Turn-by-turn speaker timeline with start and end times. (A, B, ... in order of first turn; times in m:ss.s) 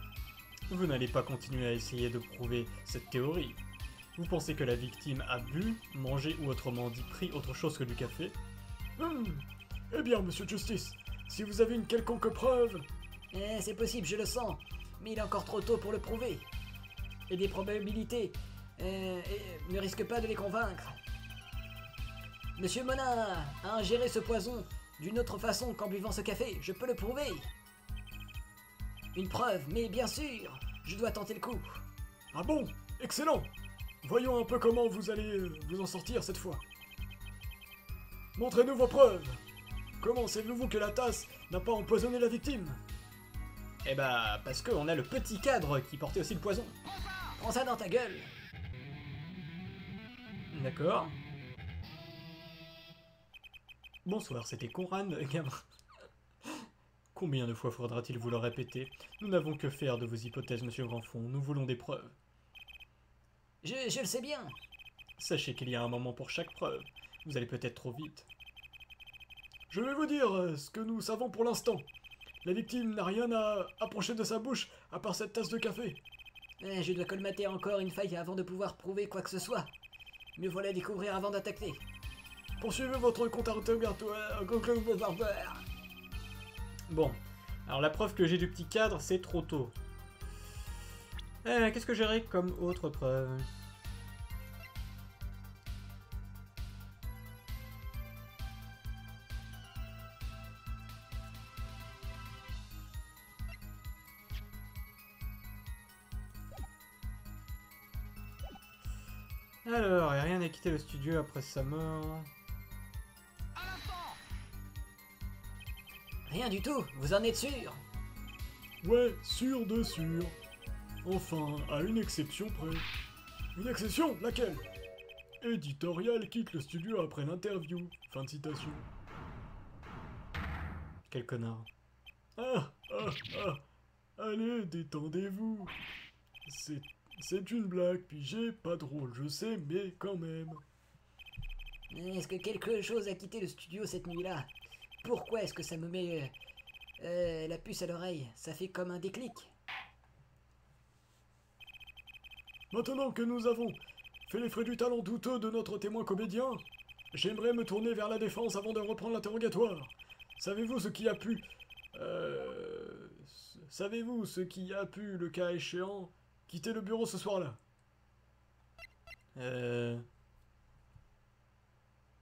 0:00.7-0:03.6 A
0:04.2-0:08.4 A
0:09.0-0:12.9 B
0:13.3-0:16.5 C
0:17.3-0:21.0 C
0:22.6-0:27.5 C
0:29.2-0:31.8 C
0:32.3-0:33.5 B
0:34.0-0:36.6 B
0:38.4-0:39.4 B
0:40.0-0:42.8 B
0:43.8-0:46.8 A
0:47.4-0:48.3 C
0:50.5-0:51.1 A
0:54.0-0:55.6 A
0:57.2-1:02.1 A
1:03.6-1:04.6 C
1:05.2-1:08.3 A
1:09.7-1:11.9 B
1:12.4-1:16.0 B
1:16.6-1:19.7 C
1:20.4-1:21.8 C
1:22.6-1:25.6 B
1:26.9-1:29.8 A
1:31.4-1:33.5 A
1:49.6-1:52.3 A
1:56.3-1:57.8 C
1:58.8-2:00.4 B
2:01.0-2:02.9 B
2:03.6-2:04.6 B
2:05.4-2:08.9 B
2:11.1-2:11.7 A
2:12.4-2:13.6 B
2:14.2-2:15.8 B
2:16.5-2:20.6 B
2:21.9-2:24.5 C
2:25.0-2:26.3 C
2:27.0-2:29.5 C
2:32.7-2:47.6 B
2:49.4-2:50.0 A